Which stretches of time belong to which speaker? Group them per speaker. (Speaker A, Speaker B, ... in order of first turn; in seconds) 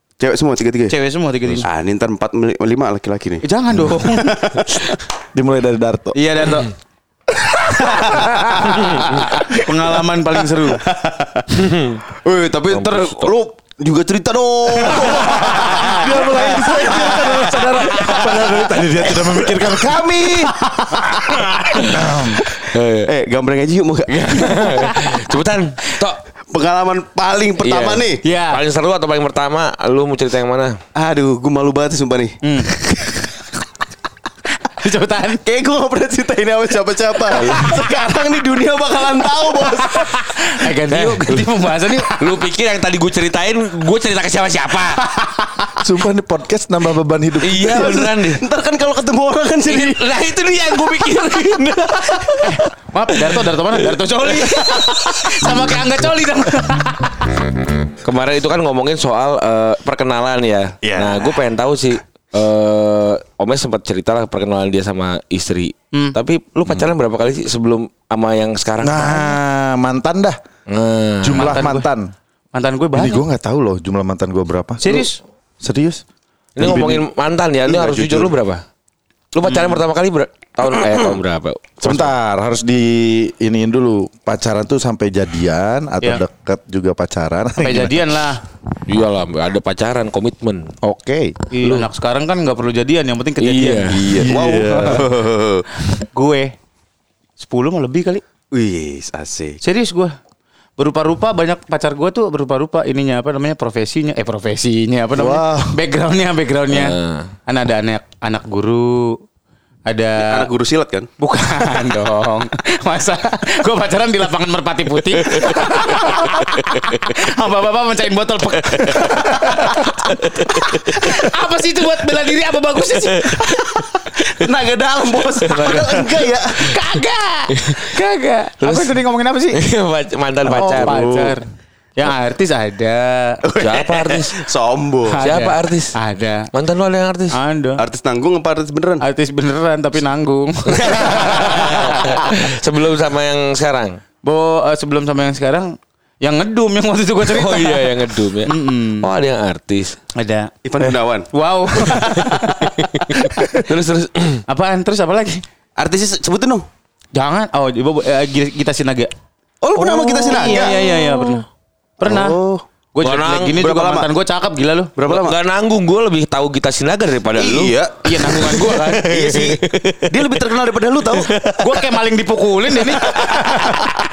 Speaker A: 0.2-0.9, 1.6-5.0, 8.6-9.0, 10.6-21.0, 23.1-24.7, 26.5-28.2, 30.9-33.1, 35.4-40.2, 47.6-50.1, 60.8-61.4, 77.6-78.3, 93.9-95.7, 98.5-99.6, 110.2-111.1, 124.2-126.8, 133.4-135.2, 137.8-139.0, 140.8-142.0, 150.6-151.3, 155.8-156.7, 159.6-160.8, 162.0-162.6, 163.5-164.1, 165.0-165.4, 167.3-171.8, 172.9-173.9
Speaker B: 0.9-1.7, 3.4-4.5, 6.1-6.7, 7.8-10.8, 20.9-22.0, 24.4-25.3, 28.2-28.6, 32.4-32.7, 34.6-35.4, 39.7-42.2, 52.4-57.3, 71.3-71.8, 72.5-73.2, 74.8-75.2, 79.5-79.8, 87.6-88.4, 91.5-94.0, 95.9-96.5, 97.4-98.2, 99.6-100.2, 100.8-109.2, 109.9-110.5, 111.2-123.8, 126.5-129.6, 130.7-133.4, 135.1-136.5, 137.3-137.8, 139.0-142.4, 144.2-149.1, 150.2-150.5, 151.3-153.3, 154.5-155.4, 157.1-159.1, 159.8-161.4, 162.0-162.4, 162.9-164.9, 168.0-169.1, 171.6-173.9
Speaker C: 5.3-6.2, 7.3-8.8, 15.0-20.5, 21.9-22.4, 45.8-48.0, 68.8-70.4, 71.2-72.1, 72.9-75.1, 75.6-76.0, 76.6-77.0, 81.8-88.0, 90.8-91.3, 94.1-95.1, 105.2-105.8, 130.4-131.3
Speaker D: 8.8-9.1, 11.6-12.0, 12.7-13.3, 22.7-23.1, 24.2-26.2, 27.6-30.8, 37.3-37.8, 40.9-41.5, 42.0-45.3, 47.4-48.4, 49.7-52.6, 53.2-55.9, 58.0-69.4, 70.7-71.6, 76.5-78.6, 79.3-82.1, 88.9-90.7, 91.6-91.9, 93.4-94.0, 106.7-107.3, 115.4-116.9, 118.6-119.2, 119.8-120.9, 122.9-123.9, 125.3-126.2, 127.5-127.8, 128.6-129.0, 129.5-131.1, 133.6-134.4, 135.2-135.9, 136.5-137.3, 140.8-144.0, 147.3-149.9, 152.8-154.4, 160.4-161.3, 163.0-163.6, 165.0-167.7, 168.4-170.4